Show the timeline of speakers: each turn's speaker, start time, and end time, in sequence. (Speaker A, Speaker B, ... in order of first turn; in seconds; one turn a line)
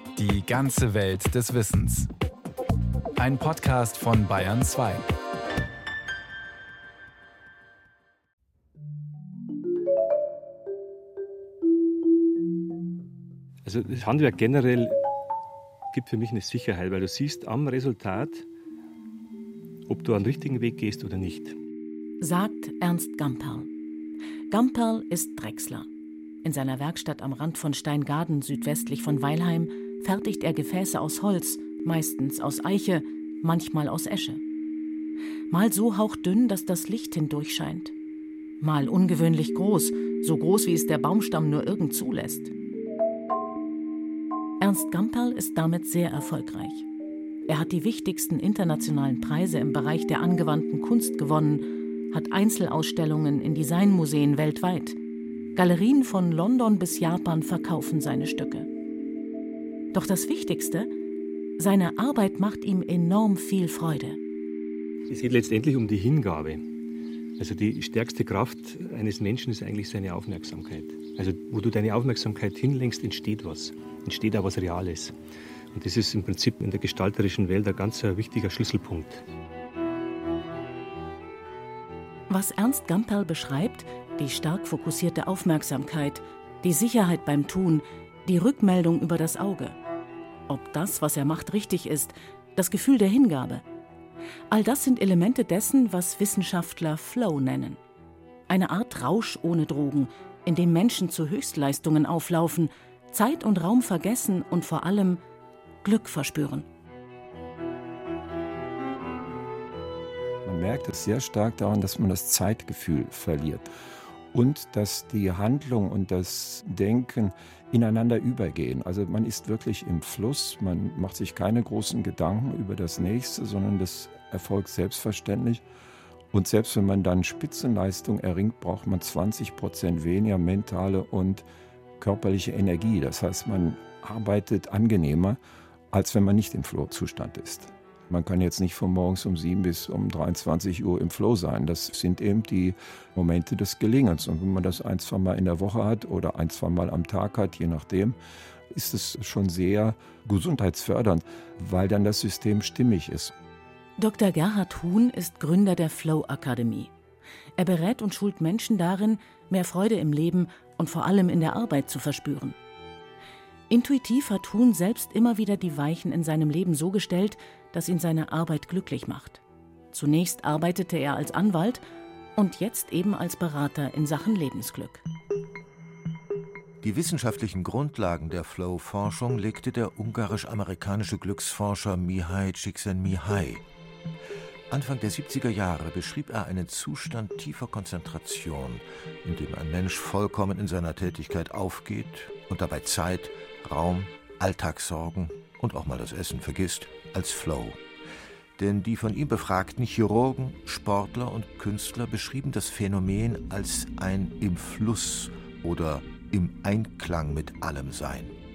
Speaker A: 0.1-2.1
Speaker A: 3.2-5.1
Speaker B: 13.6-15.0
Speaker B: 15.9-18.5
Speaker B: 19.9-21.6
Speaker C: 22.2-23.7
Speaker C: 24.5-25.9
Speaker C: 26.4-34.4
Speaker C: 35.5-37.9
Speaker C: 38.6-42.5
Speaker C: 44.6-46.9
Speaker C: 47.5-55.0
Speaker C: 55.5-58.7
Speaker C: 59.9-60.9
Speaker C: 61.6-64.2
Speaker B: 65.1-66.6
Speaker B: 67.4-75.1
Speaker B: 75.7-79.2
Speaker C: 82.3-89.8
Speaker C: 90.5-93.6
Speaker C: 94.5-97.8
Speaker C: 98.5-105.2
Speaker C: 105.8-106.7
Speaker D: 110.4-113.7
Speaker D: 114.3-125.6
Speaker D: 126.3-131.4
Speaker D: 132.0-135.4
Speaker D: 135.9-148.2
Speaker D: 148.7-153.3
Speaker C: 154.0-156.9
Speaker C: 157.6-162.6
Speaker C: 163.7-171.8
Speaker C: 172.3-175.0
Speaker E: 176.8-183.6
Speaker E: 184.7-197.8
Speaker E: 198.6-208.3